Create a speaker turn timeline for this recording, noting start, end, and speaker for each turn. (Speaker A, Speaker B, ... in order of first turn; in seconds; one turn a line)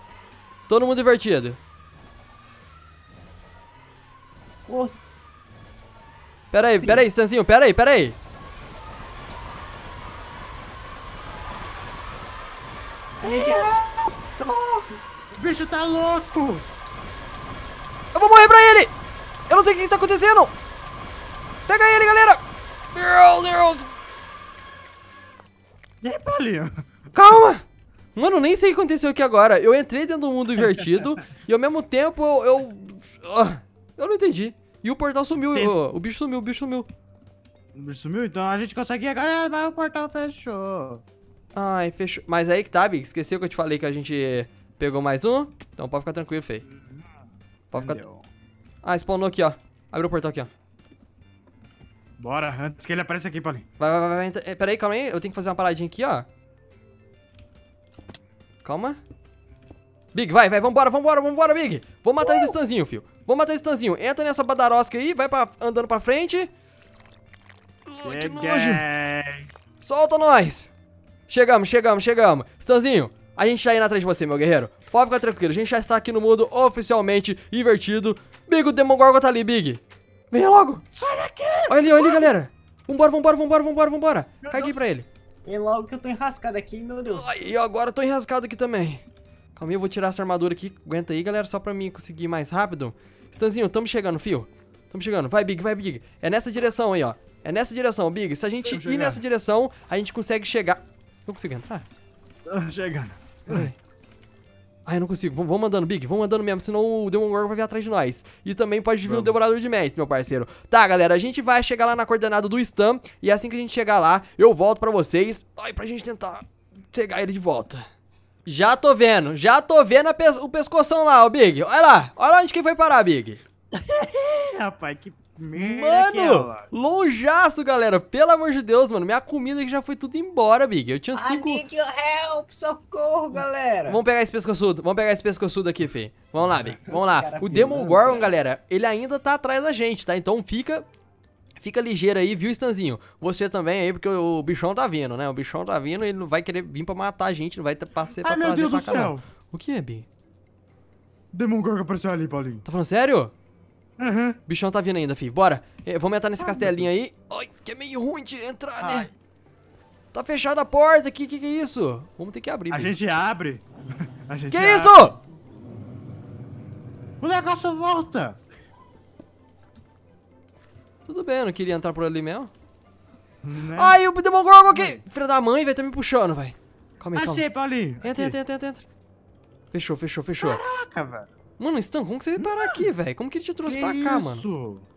Speaker A: 0.7-1.6
Speaker B: 4.7-5.0
Speaker A: 6.5-8.2
Speaker B: 6.8-7.0
Speaker B: 13.2-15.0
Speaker C: 13.2-13.9
Speaker C: 15.3-16.6
Speaker A: 18.1-18.9
Speaker A: 19.5-20.5
Speaker A: 21.7-22.4
Speaker A: 22.9-23.9
Speaker C: 26.0-26.7
Speaker A: 27.1-27.6
Speaker A: 28.1-36.9
Speaker C: 35.4-35.8
Speaker C: 37.7-41.0
Speaker A: 41.5-46.6
Speaker C: 46.7-47.1
Speaker A: 47.7-48.0
Speaker C: 47.7-48.3
Speaker A: 48.8-50.5
Speaker C: 52.2-53.6
Speaker A: 53.8-56.3
Speaker A: 58.6-59.0
Speaker A: 60.1-66.5
Speaker C: 62.2-62.5
Speaker A: 67.8-68.8
Speaker C: 68.0-69.5
Speaker A: 69.8-70.7
Speaker A: 71.3-80.8
Speaker C: 81.0-82.3
Speaker A: 81.7-85.1
Speaker C: 84.5-84.7
Speaker B: 85.4-87.5
Speaker A: 87.0-89.0
Speaker A: 89.5-101.8
Speaker C: 98.6-99.2
Speaker C: 102.5-103.7
Speaker A: 103.5-103.7
Speaker A: 104.8-117.8
Speaker C: 109.0-109.3
Speaker A: 118.4-123.4
Speaker C: 123.7-126.7
Speaker A: 125.5-131.6
Speaker B: 131.1-134.0
Speaker A: 133.3-140.8
Speaker B: 136.4-138.4
Speaker A: 141.6-150.1
Speaker C: 148.2-149.2
Speaker C: 151.3-152.6
Speaker A: 152.6-153.3
Speaker C: 154.0-154.4
Speaker A: 154.5-159.1
Speaker C: 156.4-156.9
Speaker B: 158.8-159.1
Speaker A: 160.1-162.9
Speaker C: 162.7-165.1
Speaker A: 164.5-165.2
Speaker C: 167.2-168.4
Speaker A: 171.1-172.5
Speaker C: 173.4-174.0
Speaker A: 173.7-177.4
Speaker C: 174.7-175.0
Speaker C: 177.1-178.3
Speaker A: 178.0-178.8
Speaker A: 179.7-180.6
Speaker C: 180.4-181.3
Speaker A: 181.6-184.4
Speaker C: 182.4-182.9
Speaker C: 183.6-184.9